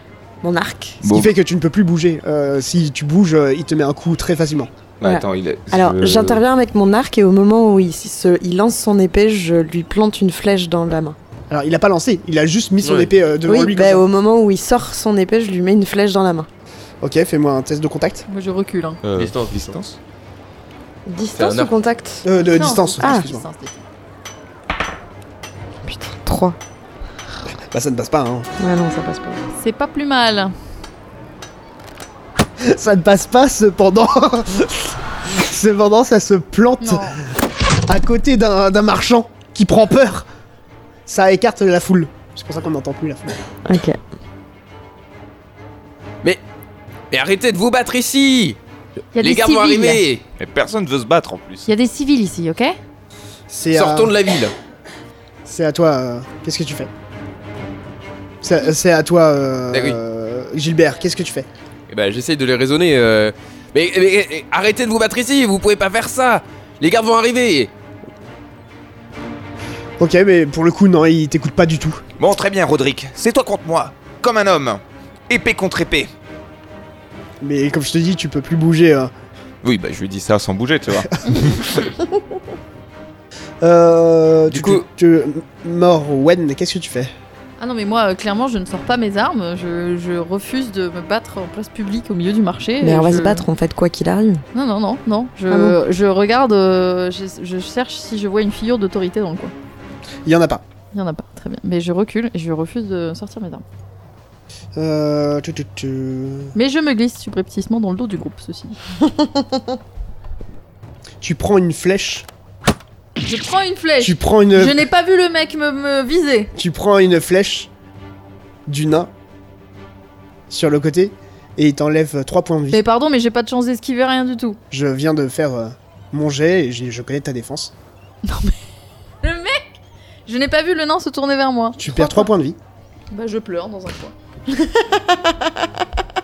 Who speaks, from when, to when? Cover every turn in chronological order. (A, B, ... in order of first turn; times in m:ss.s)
0:00.4-0:01.0 A
0:01.0-0:01.3 B
0:01.0-0:04.7 C
0:05.0-0:06.4 B
0:05.0-0:11.2 A
0:11.5-0:14.0 C
0:12.8-0:13.1 D
0:13.4-0:16.5 A
0:17.0-0:18.2 C
0:18.3-0:19.0 E
0:19.0-0:20.0 B
0:19.2-0:19.8 D
0:21.0-0:22.2 A
0:21.4-0:21.7 D
0:22.2-0:23.4 C
0:22.6-0:23.8 E
0:23.0-0:23.3 A
0:25.8-0:26.6 A
0:27.7-0:28.5 C
0:28.6-0:29.4 A
0:29.5-0:30.5 E
0:32.6-0:37.1 C
0:36.8-0:37.2 E
0:37.8-0:40.3 C
0:41.1-0:43.4 C
0:43.6-0:44.0 A
0:47.1-0:48.6 D
0:49.1-0:50.0 E
0:49.2-0:50.2 D
0:50.4-0:51.7 B
0:51.7-0:52.8 E
0:53.5-0:54.2 C
0:53.7-0:54.5 D
0:55.4-0:56.9 C
0:58.4-1:01.5 C
0:59.7-1:00.0 D
1:01.9-1:07.7 D
1:10.0-1:12.0 C
1:12.2-1:16.1 B
1:17.4-1:19.1 C
1:19.6-1:21.8 B
1:23.6-1:27.1 C
1:24.5-1:24.8 D
1:27.6-1:33.4 E
1:32.8-1:34.4 A
1:34.5-1:39.5 E
1:35.5-1:35.8 A
1:40.2-1:40.6 C
1:40.9-1:43.6 E
1:44.8-1:46.5 C
1:46.5-1:48.8 E
1:49.1-1:49.6 A
1:51.2-1:52.2 C
1:53.2-1:56.5 E
1:54.0-1:54.8 C
1:56.6-1:57.7 C
1:58.7-1:59.1 C
2:00.5-2:02.8 C
2:02.7-2:04.6 E
2:04.7-2:07.7 C
2:08.2-2:08.6 E
2:09.2-2:09.6 E
2:10.2-2:12.3 E
2:11.8-2:12.6 C
2:13.1-2:14.1 E
2:14.6-2:15.7 A